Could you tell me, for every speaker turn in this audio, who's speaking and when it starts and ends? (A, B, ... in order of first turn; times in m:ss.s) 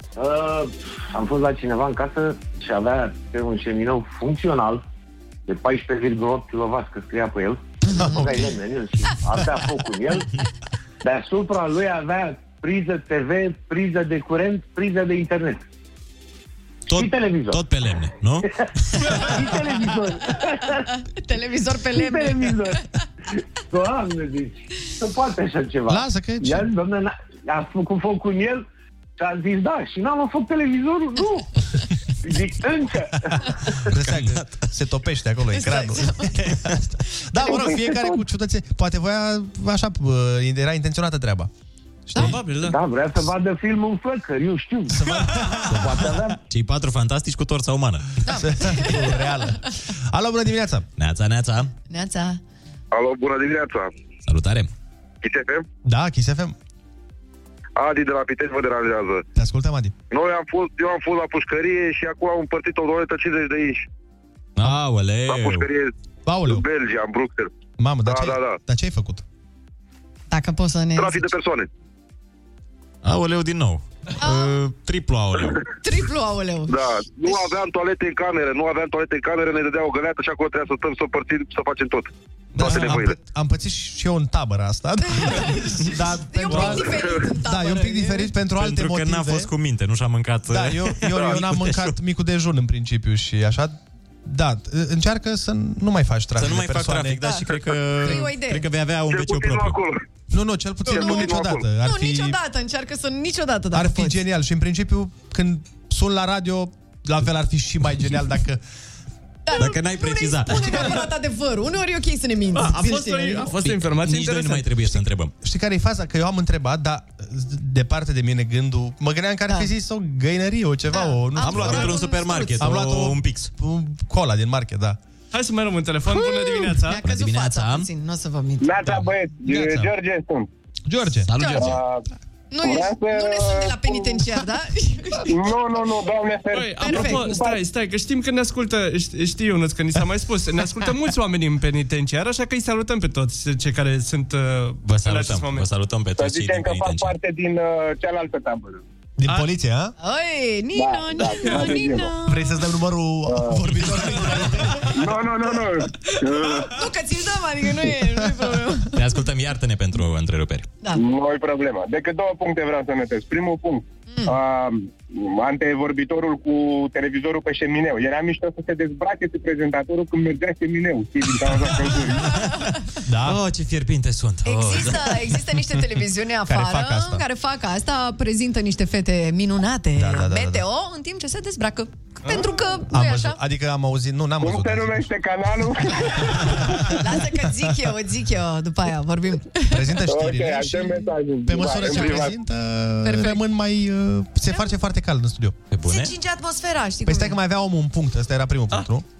0:00.2-0:04.8 A
0:05.5-0:10.3 A
0:07.8-0:08.5 B
0:11.0-0:15.6 A
0:16.9-0:19.1 C
0:16.9-0:17.6 A
0:19.2-0:20.8 A
0:21.2-0:22.8 B
0:21.9-0:22.8 A
0:23.7-0:28.6 A
0:25.9-0:26.7 D
0:29.2-0:31.5 A
0:32.2-0:33.3 A
0:33.8-0:41.5 D
0:34.0-0:34.5 C
0:35.5-0:36.5 B
0:37.3-0:38.1 B
0:42.1-0:42.4 D
0:42.2-0:42.8 E
0:42.6-0:45.0 A
0:44.9-0:46.0 D
0:45.7-0:46.4 A
0:46.5-0:48.1 C
0:48.2-0:49.4 B
0:48.4-0:50.8 D
0:51.0-0:51.7 C
0:51.9-0:52.4 B
0:52.9-0:53.9 F
0:54.2-0:54.7 C
0:55.2-0:55.6 F
0:55.8-0:56.5 D
0:57.8-0:59.2 F
0:59.3-0:59.9 D
1:00.1-1:03.9 F
1:04.6-1:05.7 C
1:05.3-1:05.9 F
1:06.2-1:06.6 D
1:06.4-1:07.5 F
1:07.8-1:09.2 D
1:08.0-1:08.6 F
1:10.3-1:11.3 B
1:11.0-1:11.7 F
1:13.0-1:15.6 C
1:14.2-1:14.6 B
1:15.8-1:16.8 B
1:16.7-1:23.1 F
1:22.5-1:29.5 D
1:22.7-1:23.0 C
1:25.1-1:28.3 B
1:28.5-1:31.9 C
1:30.5-1:37.4 D
1:36.4-1:39.8 C
1:38.0-1:38.7 B
1:39.1-1:40.0 F
1:40.3-1:42.4 D
1:40.9-1:44.2 B
1:40.9-1:41.6 F
1:43.7-1:48.6 D
1:49.4-1:53.5 B
1:49.5-1:51.0 C
1:52.5-1:54.7 E
1:53.6-1:55.3 C
1:55.4-2:02.0 D
2:00.9-2:02.7 B
2:01.4-2:03.5 C
2:02.6-2:05.0 D
2:05.3-2:07.0 E
2:06.1-2:08.8 B
2:07.0-2:07.9 C
2:08.6-2:10.5 G
2:09.5-2:09.9 D
2:10.9-2:11.3 D
2:11.2-2:11.8 C
2:11.4-2:11.7 B
2:11.6-2:12.0 G
2:12.5-2:15.3 B
2:12.6-2:14.2 G
2:15.2-2:17.6 G
2:16.5-2:25.7 E
2:16.8-2:17.4 B
2:24.8-2:27.2 C
2:26.2-2:28.8 G
2:29.2-2:29.9 D
2:30.0-2:32.5 B
2:30.7-2:32.1 G
2:32.2-2:35.0 D
2:33.3-2:33.6 G
2:34.9-2:36.7 G
2:36.7-2:39.0 B
2:38.9-2:40.7 C
2:40.9-2:52.3 G
2:44.1-2:44.4 B
2:52.3-2:52.7 B
2:53.1-2:53.4 D
2:53.2-2:55.3 C
2:54.4-3:03.4 B
2:56.5-2:57.2 D
3:00.0-3:00.6 D
3:02.9-3:05.1 D
3:04.4-3:06.6 G
3:06.8-3:09.9 B
3:09.7-3:15.6 D
3:10.0-3:12.4 G
3:11.7-3:12.2 B
3:13.0-3:13.4 B
3:15.7-3:16.2 C
3:15.8-3:17.4 B
3:17.0-3:19.0 D